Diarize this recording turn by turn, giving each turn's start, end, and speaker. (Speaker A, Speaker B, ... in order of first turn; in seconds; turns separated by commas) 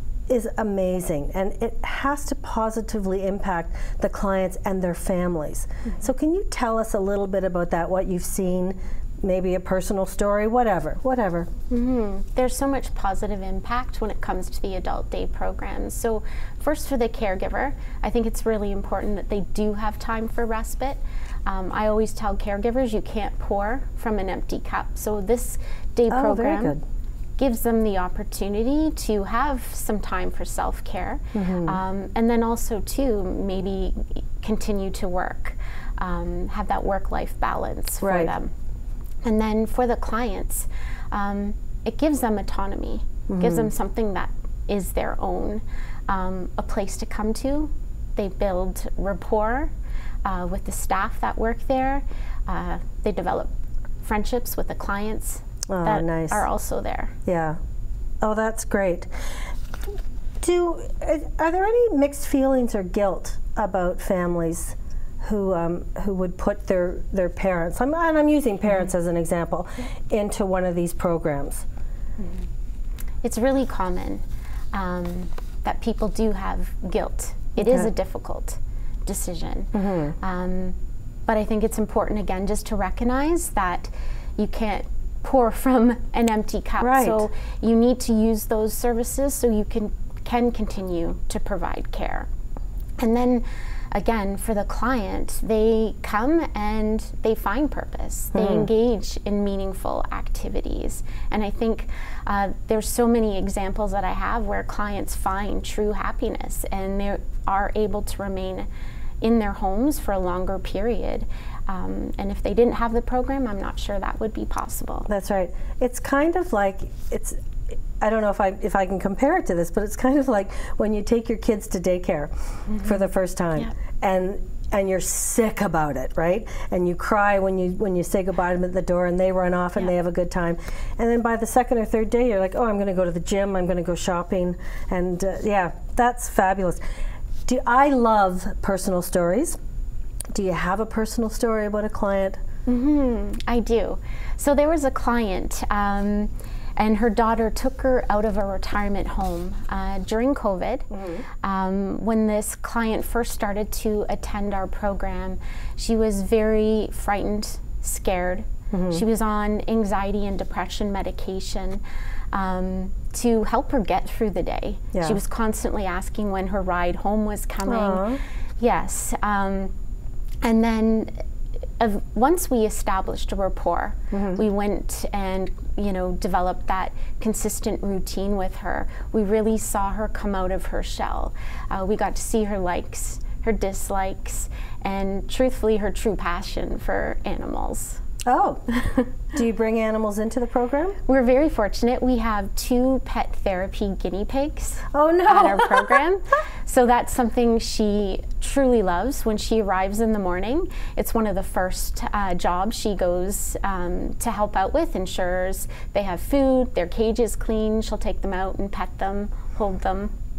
Speaker A: 0.3-11.5, Speaker B: 11.7-26.8, Speaker A: 26.1-26.8, Speaker B: 27.4-38.5, Speaker A: 31.3-31.8, Speaker A: 38.0-38.3, Speaker B: 39.2-49.7, Speaker A: 43.3-43.7, Speaker B: 50.2-57.1, Speaker A: 55.7-56.4, Speaker A: 57.2-57.6, Speaker A: 58.2-59.1, Speaker A: 60.4-71.7, Speaker B: 72.2-72.5, Speaker B: 73.2-92.3, Speaker A: 77.6-77.9, Speaker A: 79.7-80.2, Speaker A: 86.8-87.3, Speaker B: 93.0-108.7, Speaker A: 98.3-98.7, Speaker B: 109.2-115.1, Speaker A: 115.1-117.4, Speaker A: 118.0-136.8, Speaker B: 122.7-123.0, Speaker A: 137.4-139.6, Speaker A: 140.3-142.4, Speaker B: 142.7-150.9, Speaker A: 150.9-151.2, Speaker B: 151.4-169.7, Speaker A: 158.7-159.0, Speaker A: 164.9-165.2, Speaker A: 167.6-168.2, Speaker B: 170.4-171.1, Speaker B: 171.8-188.0, Speaker A: 174.1-174.4, Speaker A: 188.2-188.7, Speaker B: 188.7-189.0, Speaker A: 189.3-191.0, Speaker B: 191.0-210.1, Speaker A: 194.9-196.0